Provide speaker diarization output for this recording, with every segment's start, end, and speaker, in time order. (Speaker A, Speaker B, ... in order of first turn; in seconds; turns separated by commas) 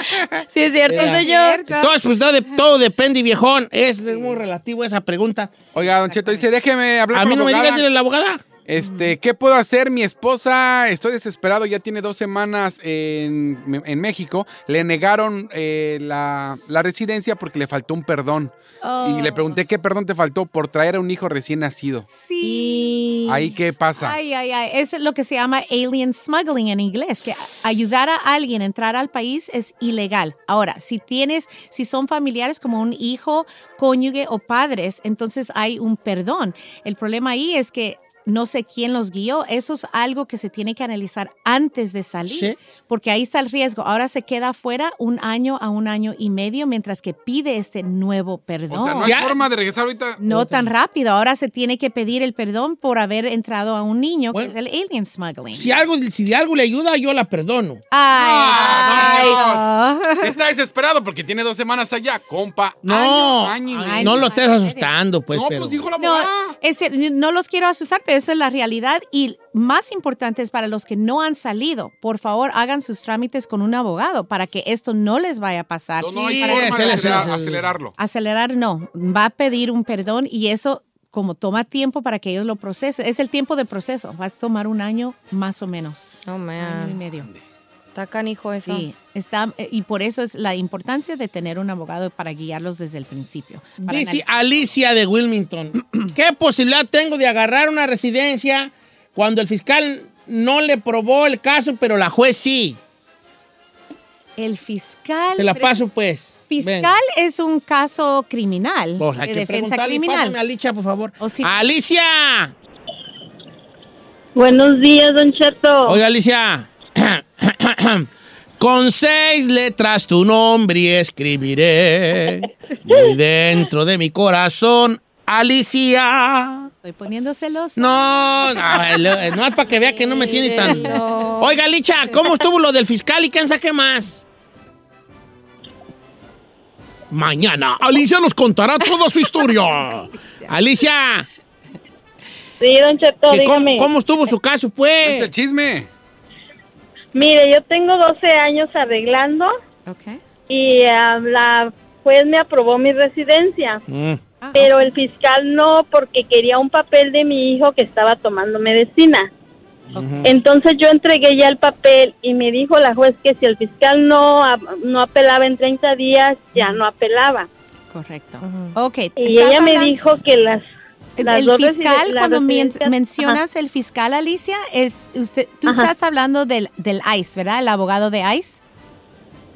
Speaker A: 0.5-1.6, Speaker B: 0.9-5.5, Speaker C: 0.9-1.9, Speaker D: 5.7-7.8, Speaker C: 5.8-6.4, Speaker B: 7.1-8.4, Speaker D: 8.7-22.0, Speaker C: 8.8-9.1, Speaker C: 18.8-19.6, Speaker C: 22.1-23.0, Speaker A: 22.4-23.3, Speaker D: 23.3-24.2, Speaker C: 24.0-49.1, Speaker B: 42.2-42.6, Speaker D: 48.7-50.2, Speaker B: 49.0-49.4, Speaker C: 50.2-55.7, Speaker B: 50.3-50.6, Speaker B: 55.5-57.8, Speaker C: 57.9-60.3, Speaker D: 58.1-59.6, Speaker A: 58.5-59.4, Speaker D: 60.2-64.2, Speaker B: 62.8-65.8, Speaker C: 63.7-64.9, Speaker D: 65.3-66.5, Speaker C: 66.0-77.2, Speaker D: 76.0-77.9, Speaker B: 76.2-77.6, Speaker C: 78.0-87.3, Speaker A: 86.2-87.0, Speaker A: 87.9-88.9, Speaker C: 88.6-94.7, Speaker B: 93.9-102.8, Speaker C: 104.4-105.8, Speaker B: 105.4-106.9, Speaker C: 106.5-110.4, Speaker B: 109.0-112.5, Speaker C: 111.2-111.5, Speaker E: 114.3-116.0, Speaker B: 115.8-118.1, Speaker B: 118.6-126.7, Speaker C: 126.7-128.8, Speaker B: 127.8-134.2, Speaker A: 129.7-131.6, Speaker C: 130.7-131.0, Speaker B: 137.1-141.3, Speaker C: 140.2-140.5, Speaker E: 142.6-143.9, Speaker B: 143.3-145.3, Speaker D: 145.0-145.9, Speaker E: 147.1-149.5, Speaker C: 149.8-150.2, Speaker E: 150.5-153.8, Speaker B: 153.9-154.2, Speaker C: 154.4-154.7, Speaker E: 154.5-159.3, Speaker B: 159.9-160.3, Speaker C: 159.9-160.3, Speaker E: 160.2-167.5, Speaker C: 167.9-170.0, Speaker A: 168.4-168.8, Speaker E: 169.2-170.7, Speaker C: 171.2-178.6, Speaker E: 171.2-173.3